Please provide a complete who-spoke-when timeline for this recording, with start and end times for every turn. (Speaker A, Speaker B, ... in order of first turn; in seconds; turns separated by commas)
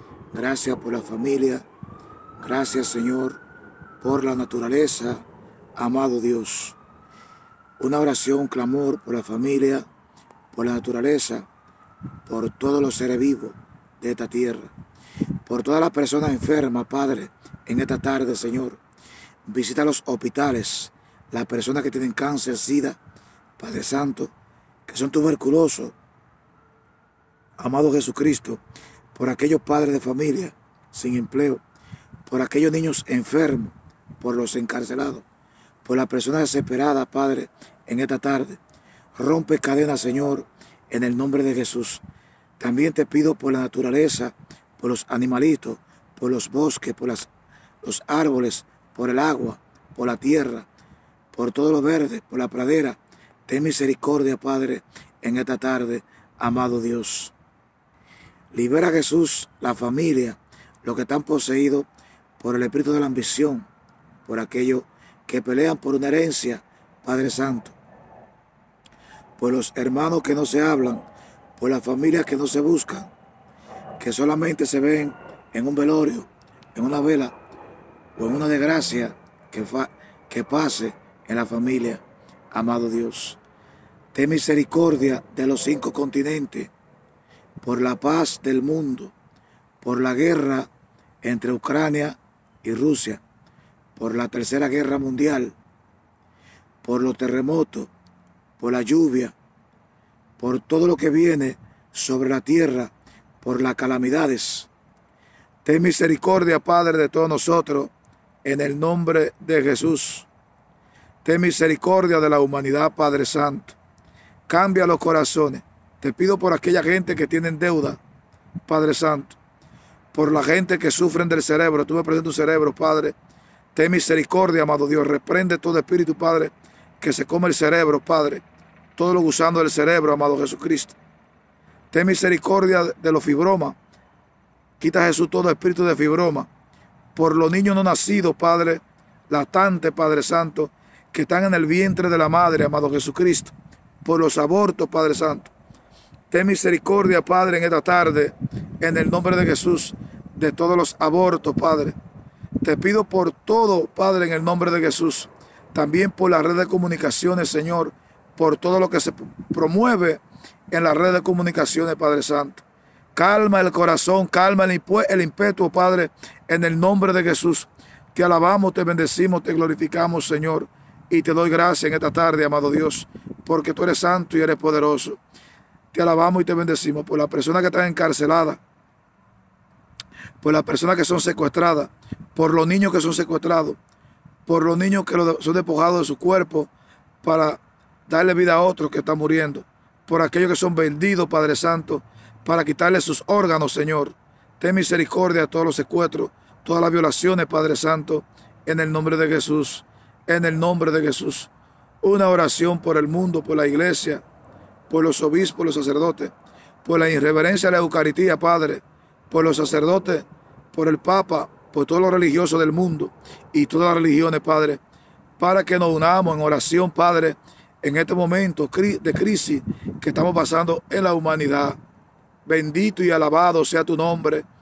Speaker A: 0.3-1.6, Speaker A: 2.4-3.4, Speaker A: 4.0-5.2, Speaker A: 5.8-6.8, Speaker A: 7.8-9.8, Speaker A: 10.5-11.5, Speaker A: 12.2-14.7, Speaker A: 15.4-18.8, Speaker A: 19.4-23.0, Speaker A: 23.6-24.3, Speaker A: 24.9-25.9, Speaker A: 27.6-28.6, Speaker A: 29.1-31.6, Speaker A: 32.2-35.2, Speaker A: 35.8-38.6, Speaker A: 39.1-42.0, Speaker A: 42.6-47.3, Speaker A: 47.8-50.7, Speaker A: 51.3-57.3, Speaker A: 58.5-61.9, Speaker A: 62.4-63.7, Speaker A: 64.2-67.8, Speaker A: 69.4-71.0, Speaker A: 71.6-73.1, Speaker A: 74.0-77.3, Speaker A: 78.2-83.4, Speaker A: 84.1-86.7, Speaker A: 87.6-89.1, Speaker A: 89.8-90.7, Speaker A: 91.2-93.2, Speaker A: 94.0-95.5, Speaker A: 96.8-97.9, Speaker A: 98.6-99.3, Speaker A: 100.4-104.7, Speaker A: 105.6-107.9, Speaker A: 108.4-110.3, Speaker A: 111.2-113.8, Speaker A: 114.5-118.0, Speaker A: 118.7-119.3, Speaker A: 120.1-123.1, Speaker A: 123.7-128.4, Speaker A: 128.9-131.0, Speaker A: 131.9-133.8, Speaker A: 134.8-136.5, Speaker A: 137.1-145.5, Speaker A: 146.3-151.9, Speaker A: 152.6-162.6, Speaker A: 163.1-175.2, Speaker A: 175.9-178.6, Speaker A: 180.4-183.8, Speaker A: 184.4-186.7, Speaker A: 187.2-201.5, Speaker A: 202.0-204.2, Speaker A: 204.9-206.3, Speaker A: 206.8-214.8, Speaker A: 215.4-221.8, Speaker A: 222.4-224.4